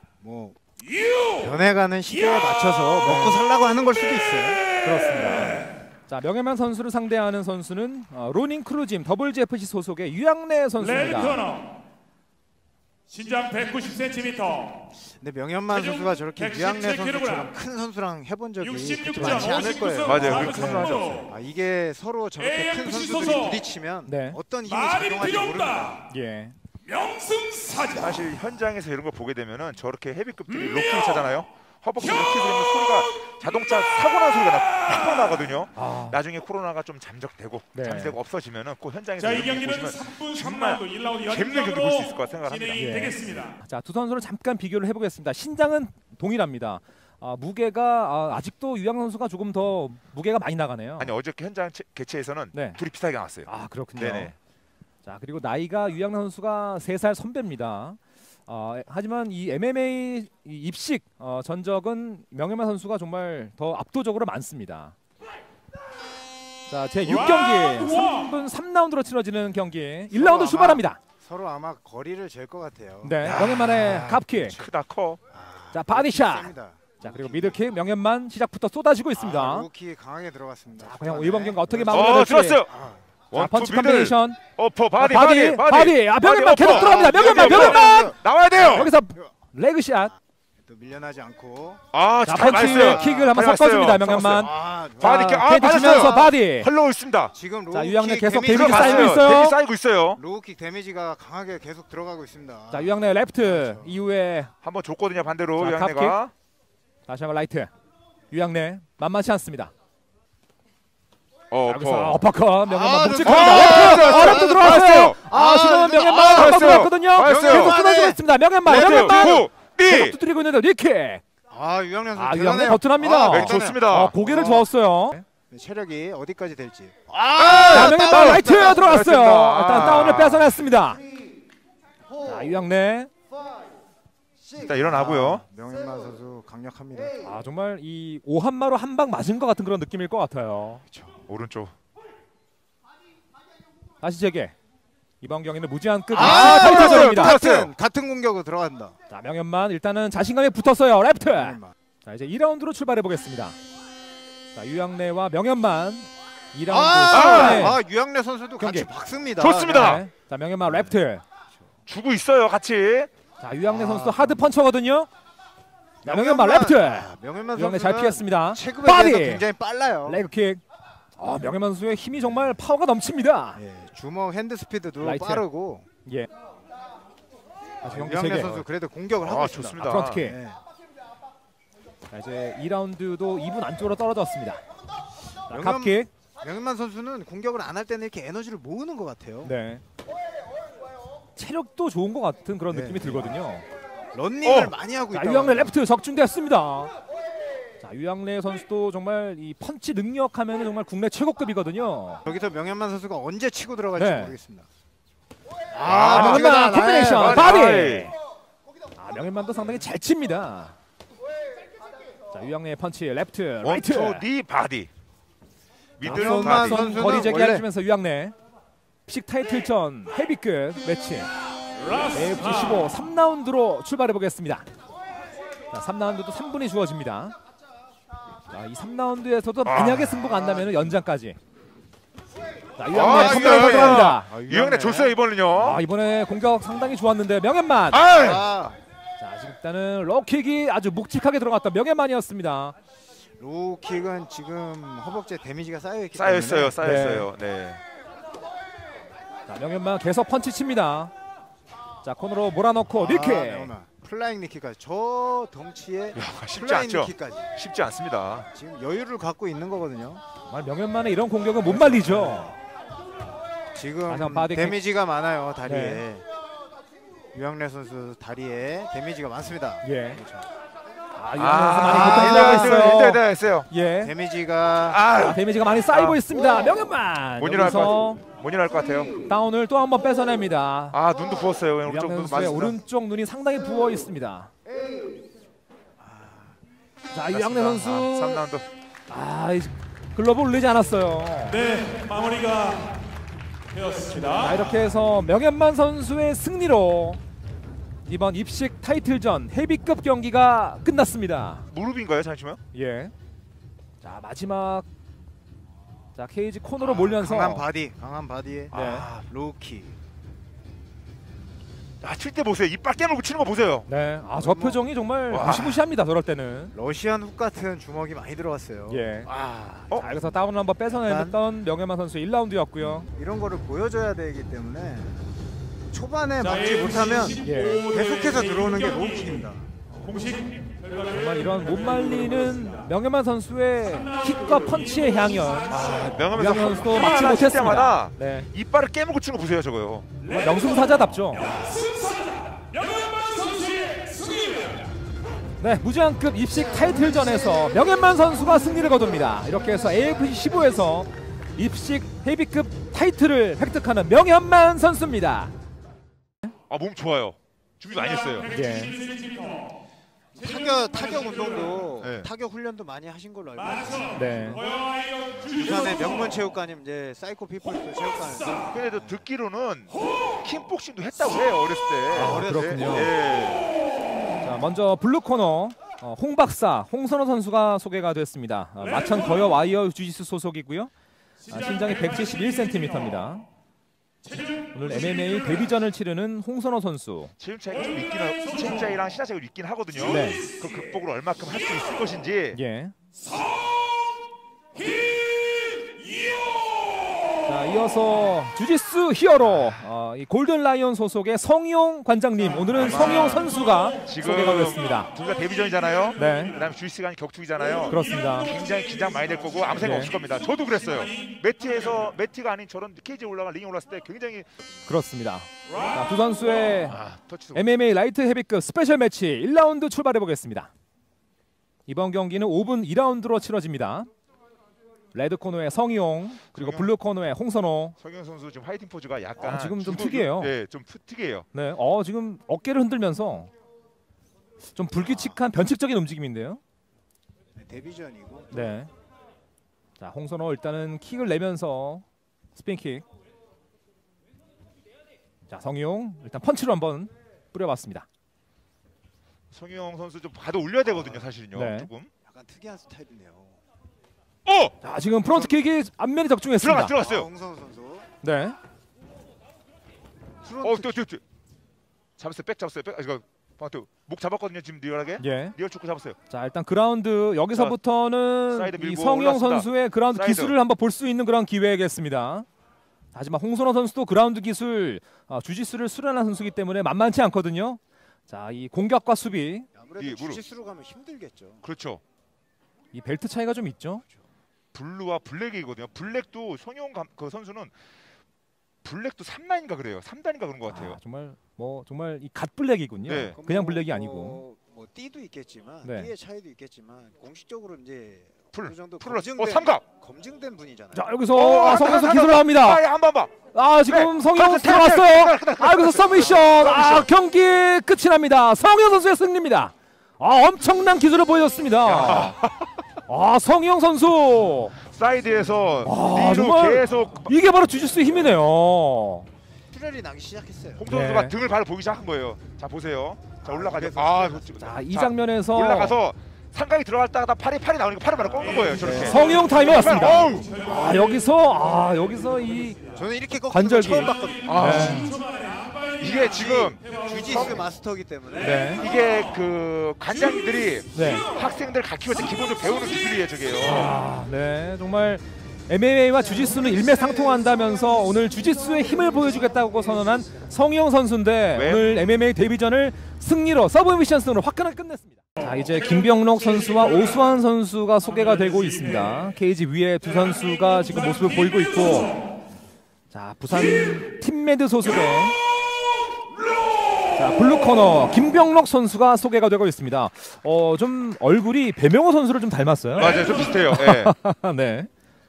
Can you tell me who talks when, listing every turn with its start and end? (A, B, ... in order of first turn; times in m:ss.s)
0:00.2-0:00.6 A
0:01.4-0:04.7 A
0:03.0-0:03.4 B
0:04.8-0:11.5 B
0:13.2-0:14.4 C
0:15.2-0:20.7 A
0:19.1-0:19.5 B
0:19.3-0:19.9 C
0:20.0-0:21.3 D
0:20.4-0:20.9 B
0:21.2-0:26.0 A
0:24.1-0:24.4 B
0:26.1-0:26.5 B
0:27.4-0:27.7 C
0:27.9-0:43.1 D
0:35.7-0:36.2 B
0:37.7-0:38.2 B
0:42.7-0:51.1 B
0:51.0-0:54.3 D
0:52.5-0:52.8 B
0:53.4-0:54.3 B
0:55.0-1:04.9 B
1:06.7-1:11.0 B
1:10.1-1:14.7 A
1:13.0-1:14.6 B
1:13.2-1:15.2 D
1:15.3-1:17.6 A
1:15.7-1:19.7 B
1:19.2-1:23.0 A
1:20.8-1:22.6 B
1:21.9-1:22.7 D
1:23.3-1:28.9 D
1:23.3-1:24.4 B
1:25.0-1:28.1 B
1:26.6-1:29.3 A
1:28.7-1:30.1 B
1:30.7-1:31.8 A
1:31.9-1:37.3 D
1:32.2-1:36.7 B
1:32.6-1:33.3 A
1:34.4-1:36.3 A
1:37.3-1:39.4 A
1:37.7-1:39.6 B
1:38.4-1:40.2 D
1:40.1-1:44.0 A
1:42.7-1:44.5 B
1:44.6-1:46.3 D
1:45.6-1:46.2 B
1:47.1-1:47.7 B
1:48.3-1:49.7 B
1:51.5-1:52.2 D
1:51.6-2:01.2 B
1:52.6-1:59.5 A
1:53.2-1:55.2 D
1:56.2-1:57.8 D
1:58.6-2:00.2 D
2:01.5-2:04.7 A
2:02.2-2:05.2 B
2:03.2-2:04.2 D
2:05.5-2:09.1 A
2:07.4-2:10.6 D
2:07.7-2:11.0 B
2:12.2-2:13.1 B
2:14.5-2:17.2 A
2:14.6-2:15.4 D
2:17.2-2:20.8 B
2:21.3-2:21.7 D
2:24.0-2:24.5 B
2:25.2-2:27.4 B
2:26.1-2:28.9 A
2:26.1-2:27.7 D
2:29.1-2:33.6 B
2:31.2-2:31.7 A
2:34.5-2:37.8 B
2:36.7-2:40.0 A
2:37.1-2:37.7 D
2:38.6-2:38.9 B
2:39.4-2:40.0 D
2:39.7-2:41.2 B
2:40.6-2:41.0 A
2:41.9-2:43.1 D
2:43.4-2:45.1 B
2:43.6-2:44.5 A
2:46.0-2:49.4 B
2:46.0-2:50.2 A
2:50.0-2:50.6 B
2:51.2-2:53.6 B
2:53.5-2:55.8 A
2:55.0-2:55.4 B
2:57.8-3:00.6 A
2:57.8-2:58.6 B
2:59.2-3:00.2 D
2:59.8-3:00.4 B
3:02.1-3:04.6 B
3:05.5-3:09.5 A
3:05.5-3:06.1 B
3:09.4-3:09.8 B
3:11.4-3:13.6 B
3:12.7-3:13.4 A
3:14.1-3:15.7 A
3:14.4-3:14.7 D
3:15.1-3:16.9 B
3:17.8-3:22.2 B
3:22.2-3:24.7 A
3:24.0-3:24.3 B
3:25.7-3:27.5 A
3:25.8-3:28.1 D
3:26.1-3:28.1 B
3:29.0-3:30.7 B
3:32.3-3:34.2 B
3:33.6-3:34.9 D
3:36.0-3:37.1 D
3:36.0-3:37.6 A
3:36.0-3:38.3 B
3:39.1-3:41.3 B
3:42.1-3:44.6 B
3:45.7-3:47.3 B
3:48.5-3:51.4 B
3:49.6-3:50.2 D
3:50.1-3:51.0 A
3:52.8-3:54.3 B
3:52.9-3:55.8 D
3:53.0-3:55.2 A
3:55.6-3:58.0 B
3:57.9-3:58.4 D
3:58.1-3:58.8 A
3:59.2-4:02.7 B
4:03.4-4:06.8 A
4:06.1-4:07.8 D
4:06.8-4:07.3 B
4:09.5-4:11.1 B
4:12.0-4:13.7 B
4:12.9-4:17.5 A
4:16.1-4:18.5 D
4:18.5-4:20.2 A
4:20.5-4:22.5 B
4:21.6-4:22.5 A
4:23.7-4:26.2 A
4:24.1-4:24.8 B
4:25.6-4:26.0 B
4:27.3-4:30.5 A
4:29.8-4:30.2 B
4:31.1-4:34.1 B
4:31.3-4:33.7 D
4:31.9-4:33.1 A
4:34.0-4:35.0 A
4:34.8-4:36.7 D
4:35.2-4:38.2 B
4:37.4-4:39.1 D
4:39.3-4:41.0 B
4:40.9-4:42.8 D
4:41.8-4:44.5 B
4:46.0-4:46.6 A
4:47.1-4:48.4 B
4:47.3-4:48.6 D
4:49.1-4:51.8 B
4:51.9-4:52.7 C
4:54.1-4:57.2 B
4:58.0-5:01.6 B
5:01.7-5:02.6 D
5:02.7-5:03.1 B
5:04.0-5:04.8 B
5:06.2-5:07.6 B
5:06.8-5:09.9 A
5:08.7-5:09.1 B
5:12.0-5:13.9 D
5:13.9-5:16.7 B
5:14.4-5:14.8 A
5:15.3-5:15.8 D
5:16.7-5:20.3 A
5:18.9-5:19.3 B
5:19.9-5:23.1 B
5:20.9-5:21.4 A
5:22.8-5:25.2 A
5:25.9-5:29.6 A
5:27.4-5:27.9 B
5:31.1-5:38.5 B
5:35.7-5:40.1 D
5:40.3-5:41.5 B
5:45.6-5:55.5 B
5:56.7-5:58.5 D
5:58.5-5:59.0 B
6:00.3-6:04.8 A
6:02.0-6:02.3 D
6:04.1-6:04.6 B
6:05.4-6:09.1 A
6:08.7-6:13.7 D
6:12.1-6:13.1 A
6:12.1-6:13.1 B
6:14.4-6:20.9 B
6:21.5-6:23.4 B
6:24.7-6:27.3 B
6:27.4-6:32.6 D
6:30.0-6:30.5 B
6:32.5-6:32.9 B
6:37.4-6:45.1 B
6:39.4-6:39.8 D
6:42.7-6:54.5 D
6:46.2-6:46.5 B
6:47.9-6:48.5 B
6:49.8-6:50.1 B
6:54.9-6:57.0 B
6:56.9-6:57.6 D
6:57.5-7:00.7 B
7:01.9-7:04.1 B
7:05.1-7:08.0 B
7:06.5-7:06.9 D
7:08.0-7:11.4 D
7:09.4-7:10.5 B
7:11.5-7:13.5 B
7:14.8-7:16.6 B
7:15.0-7:15.4 A
7:17.6-7:18.8 A
7:18.5-7:18.9 B
7:20.0-7:22.0 B
7:22.5-7:23.0 B
7:25.5-7:28.0 B
7:29.5-7:32.1 D
7:31.5-7:31.9 B
7:32.2-7:33.6 A
7:34.4-7:34.7 D
7:34.8-7:37.0 B
7:35.2-7:35.6 A
7:36.6-7:37.3 D
7:37.0-7:38.1 A
7:38.2-7:38.6 B
7:40.4-7:41.0 A
7:40.6-7:41.2 D
7:42.2-7:46.2 D
7:45.2-7:45.5 B
7:46.3-7:52.4 B
7:48.5-7:50.6 D
7:53.1-7:59.7 B
7:59.7-8:01.6 A
8:00.0-8:00.4 D
8:01.6-8:02.0 D
8:02.9-8:04.0 B
8:04.7-8:07.7 D
8:08.8-8:11.0 D
8:10.6-8:14.4 B
8:13.0-8:13.4 D
8:13.4-8:21.1 A
8:15.8-8:16.1 B
8:18.5-8:19.8 D
8:20.9-8:22.8 B
8:21.3-8:27.1 D
8:23.5-8:32.4 B
8:31.8-8:32.7 D
8:33.1-8:34.8 B
8:34.8-8:37.3 D
8:35.8-8:39.3 B
8:39.7-8:40.9 A
8:40.8-8:50.6 D
8:40.9-8:41.3 B
8:43.4-8:44.8 A
8:44.6-8:46.0 B
8:48.8-8:49.4 A
8:48.9-8:52.8 B
8:52.9-8:54.7 A
8:53.5-8:55.2 B
8:54.4-8:55.1 D
8:56.0-8:57.6 D
8:56.6-8:58.8 A
8:58.4-8:58.8 B
8:58.7-9:04.0 D
9:00.9-9:01.3 B
9:03.6-9:22.1 B
9:11.5-9:12.0 D
9:23.1-9:25.4 B
9:27.2-9:34.9 B
9:32.9-9:34.1 D